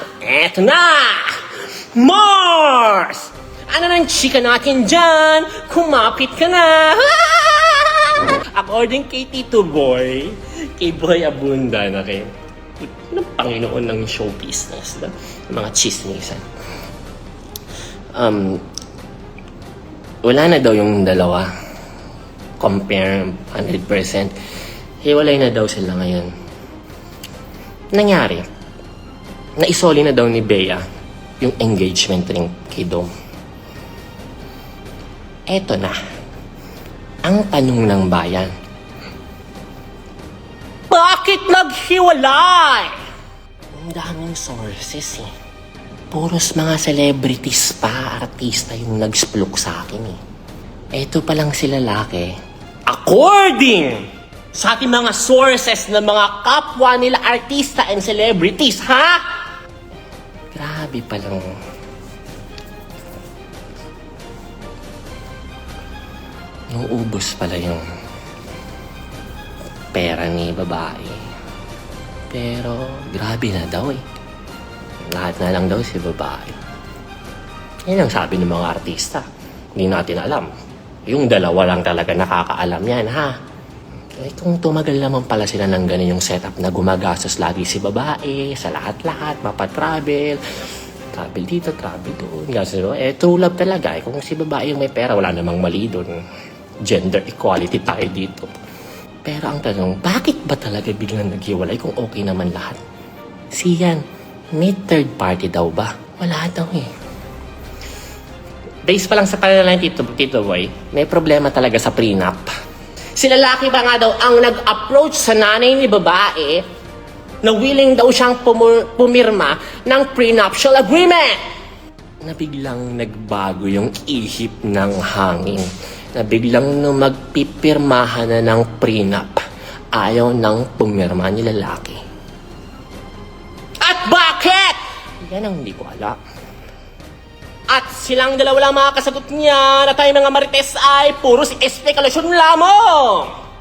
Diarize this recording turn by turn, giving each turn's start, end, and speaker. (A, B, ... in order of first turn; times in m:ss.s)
0:00.2-0:12.3 A
0:12.8-0:16.4 A
0:18.1-0:18.6 A
0:20.2-0:21.5 A
0:22.6-0:24.3 A
0:25.0-0:26.3 A
0:27.9-0:28.4 A
0:29.6-0:30.8 A
0:31.4-0:33.1 A
0:35.5-0:36.0 A
0:37.2-0:38.5 A
0:40.9-0:42.9 A
0:43.8-0:45.3 A
0:46.1-0:50.2 A
0:50.9-0:52.3 A
0:52.9-0:59.2 A
1:00.5-1:01.4 A
1:06.7-1:07.8 A
1:09.9-1:11.2 A
1:12.3-1:14.0 A
1:15.1-1:16.6 A
1:17.9-1:19.2 A
1:19.8-1:20.5 A
1:21.1-1:23.3 A
1:24.2-1:30.4 A
1:31.1-1:36.2 A
1:36.8-1:38.5 A
1:39.2-1:42.8 A
1:43.5-1:46.9 A
1:48.8-1:52.5 A
1:53.2-1:56.6 A
1:57.4-2:01.4 A
2:02.2-2:09.4 A
2:09.9-2:12.0 A
2:13.8-2:16.2 A
2:17.7-2:23.3 A